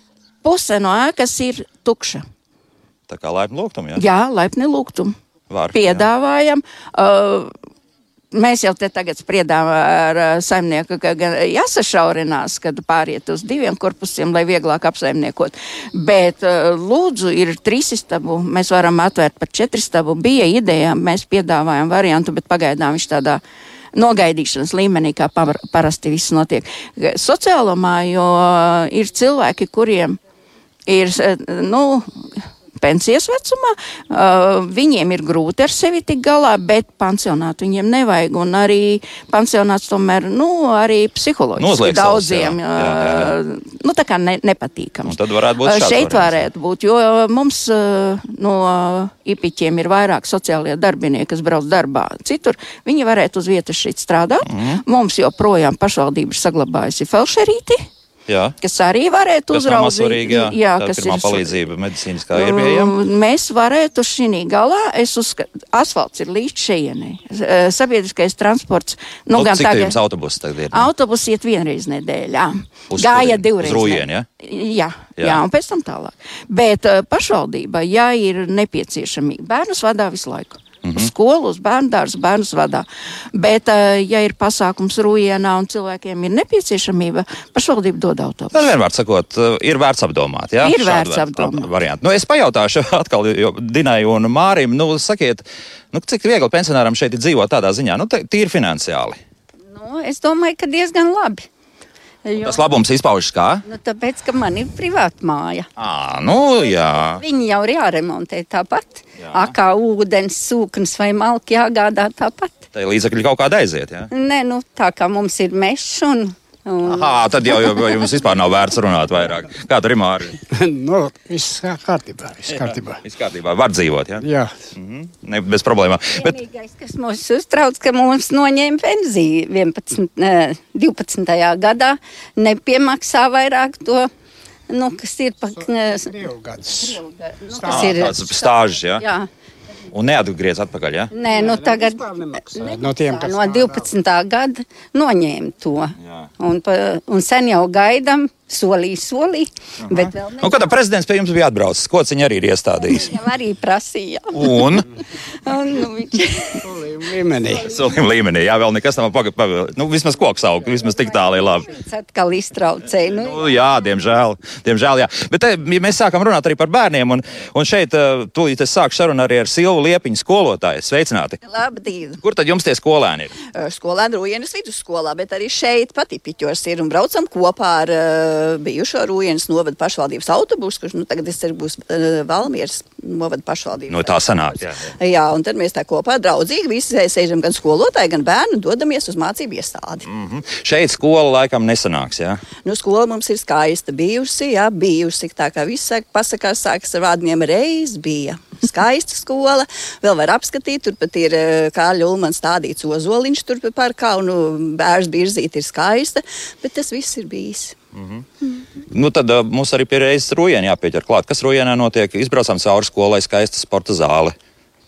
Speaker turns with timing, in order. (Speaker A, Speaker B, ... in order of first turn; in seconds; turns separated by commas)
Speaker A: 0.4-2.2, Speaker B: 3.1-4.0, Speaker A: 4.0-5.1, Speaker B: 5.5-6.0, Speaker A: 5.7-7.5, Speaker A: 8.3-23.4, Speaker A: 23.9-30.2, Speaker A: 30.9-57.8, Speaker B: 41.6-43.3, Speaker B: 45.0-46.4, Speaker B: 54.4-54.8, Speaker B: 58.3-58.5, Speaker A: 58.6-61.5, Speaker B: 59.5-62.9, Speaker A: 62.3-69.9, Speaker B: 69.3-70.9, Speaker A: 70.7-88.7, Speaker B: 72.9-74.2, Speaker B: 80.8-81.1, Speaker B: 88.5-99.2, Speaker A: 90.6-91.7, Speaker C: 99.7-101.5, Speaker C: 102.2-102.6, Speaker B: 102.4-103.6, Speaker C: 103.7-105.7, Speaker B: 105.8-107.2, Speaker C: 107.1-112.6, Speaker B: 109.2-109.5, Speaker B: 112.7-114.1, Speaker C: 114.1-117.9, Speaker B: 116.8-120.3, Speaker D: 120.5-123.0, Speaker B: 122.5-126.4, Speaker D: 124.2-124.5, Speaker C: 126.2-134.1, Speaker C: 134.7-139.3, Speaker D: 136.1-137.9, Speaker B: 137.6-139.0, Speaker B: 139.9-141.1, Speaker C: 141.1-150.7, Speaker D: 141.3-143.8, Speaker B: 149.8-153.2, Speaker C: 152.8-154.6, Speaker B: 154.3-154.8, Speaker C: 155.3-156.7, Speaker D: 156.6-157.7, Speaker B: 157.5-161.7, Speaker C: 161.7-163.4, Speaker B: 163.2-171.4, Speaker E: 171.4-172.2, Speaker B: 172.2-173.3, Speaker E: 173.4-190.1, Speaker B: 183.9-184.9, Speaker B: 190.1-192.4, Speaker E: 192.6-207.8, Speaker B: 207.9-208.2, Speaker B: 208.9-214.3